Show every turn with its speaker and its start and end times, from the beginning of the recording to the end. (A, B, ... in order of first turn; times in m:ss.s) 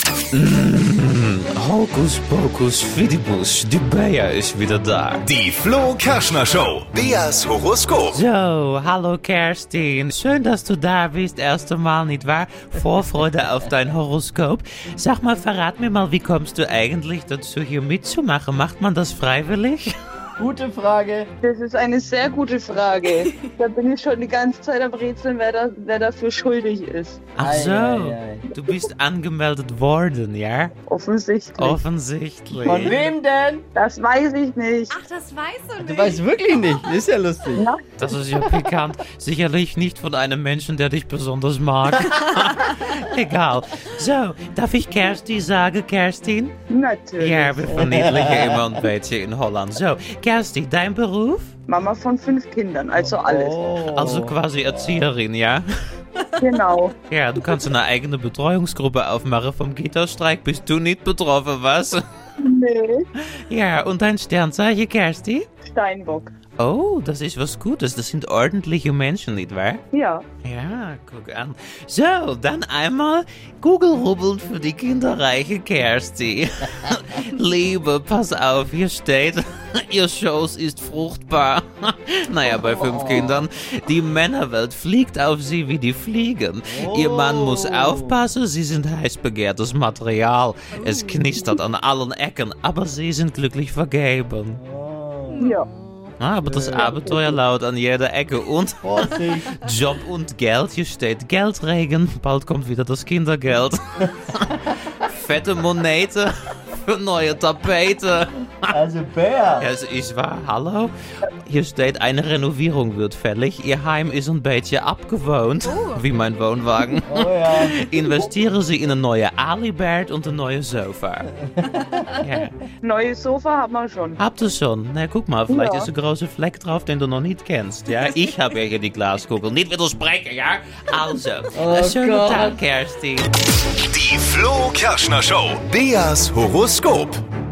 0:00.3-0:05.3 A
0:05.2-0:08.2 B
0:08.1-0:19.9 A
0:20.4-0:21.3 C
0:21.4-0:27.2 D
0:27.3-0:30.7 A
0:27.4-0:28.5 C
0:30.9-0:31.8 D
0:31.6-0:33.0 A
0:32.5-0:33.6 C
0:33.7-0:35.0 D
0:34.9-0:36.2 E
0:35.8-0:37.7 C
0:37.6-0:38.1 D
0:38.0-0:46.5 A
0:46.7-0:47.7 D
0:47.2-0:51.5 A
0:47.7-0:48.5 C
0:51.7-0:53.6 D
0:52.9-0:55.1 C
0:53.9-0:55.6 A
0:56.4-0:56.9 D
0:57.0-1:02.0 A
1:02.4-1:03.0 D
1:03.5-1:05.5 A
1:05.7-1:06.3 D
1:06.6-1:09.8 A
1:09.9-1:10.2 D
1:10.4-1:34.6 A
1:22.6-1:23.4 C
1:26.7-1:28.2 C
1:30.8-1:31.6 E
1:34.6-1:35.4 C
1:35.3-1:36.1 E
1:35.4-1:35.7 D
1:36.2-1:48.7 A
1:36.4-1:37.2 C
1:36.8-1:37.1 D
1:38.8-1:39.5 C
1:48.7-1:49.7 C
1:49.6-1:50.9 A
1:51.4-2:01.3 A
1:55.6-1:56.1 E
1:57.1-1:58.1 C
2:01.5-2:02.0 C
2:02.1-2:02.5 A
2:02.8-2:04.2 D
2:04.2-2:13.3 A
2:05.5-2:05.9 D
2:11.5-2:12.6 C
2:13.8-2:17.2 B